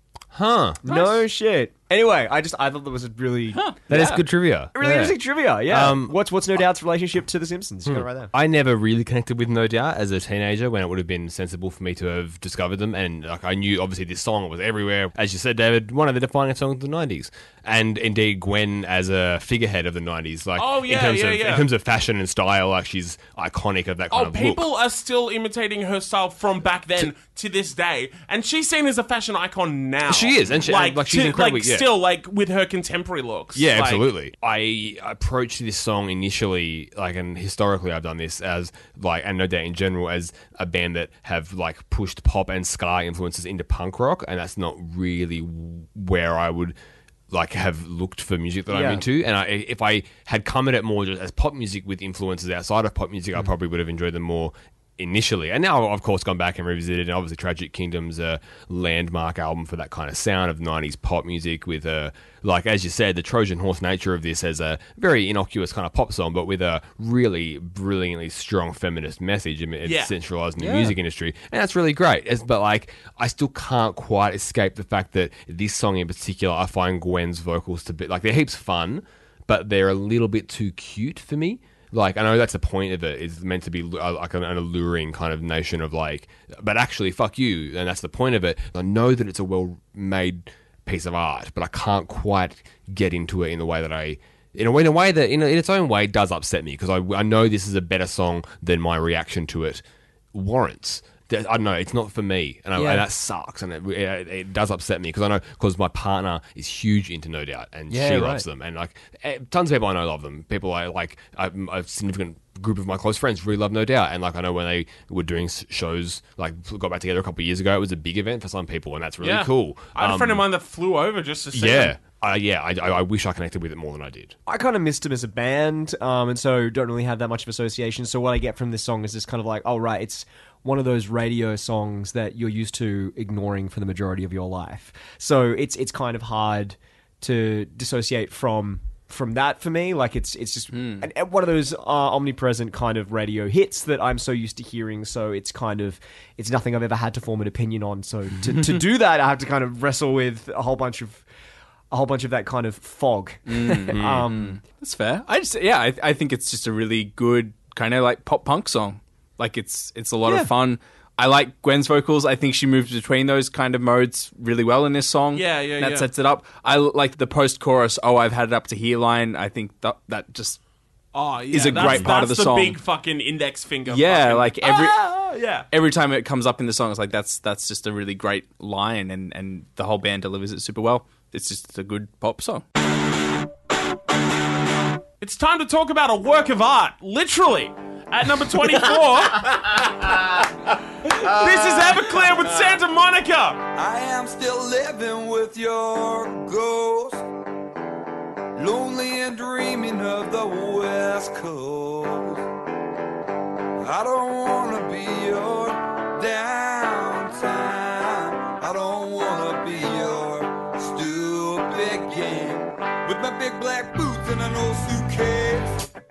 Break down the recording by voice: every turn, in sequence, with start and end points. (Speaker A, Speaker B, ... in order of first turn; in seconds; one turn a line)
Speaker A: 0.3-0.8
Speaker B: 0.8-3.8
Speaker C: 0.8-1.2
Speaker C: 3.5-4.2
Speaker A: 3.9-5.1
Speaker B: 4.7-8.3
Speaker A: 5.7-6.2
Speaker A: 7.9-24.6
Speaker D: 20.6-21.6
Speaker D: 24.1-34.0
Speaker A: 30.1-31.9
Speaker A: 33.5-46.7
Speaker A: 47.3-99.8
Speaker B: 48.7-49.0
Speaker D: 69.8-70.1
Speaker B: 70.6-70.9
Speaker A: 100.3-120.4
Speaker B: 102.8-103.0
Speaker B: 107.9-108.4
Speaker D: 119.2-122.0
Speaker A: 121.5-124.3
Speaker B: 124.5-151.2
Speaker C: 140.7-141.1
Speaker B: 151.9-154.6
Speaker C: 153.5-170.6
Speaker A: 153.9-154.3
Speaker B: 160.2-160.5
Speaker D: 165.3-166.1
Speaker D: 171.1-175.7
Speaker C: 171.5-172.8
Speaker C: 173.9-175.1
Speaker C: 175.7-182.6
Speaker D: 185.2-189.6
Speaker E: 191.2-192.4
Speaker D: 191.2-193.6
Speaker E: 193.7-197.2
Speaker E: 198.6-202.4
Speaker E: 203.8-215.8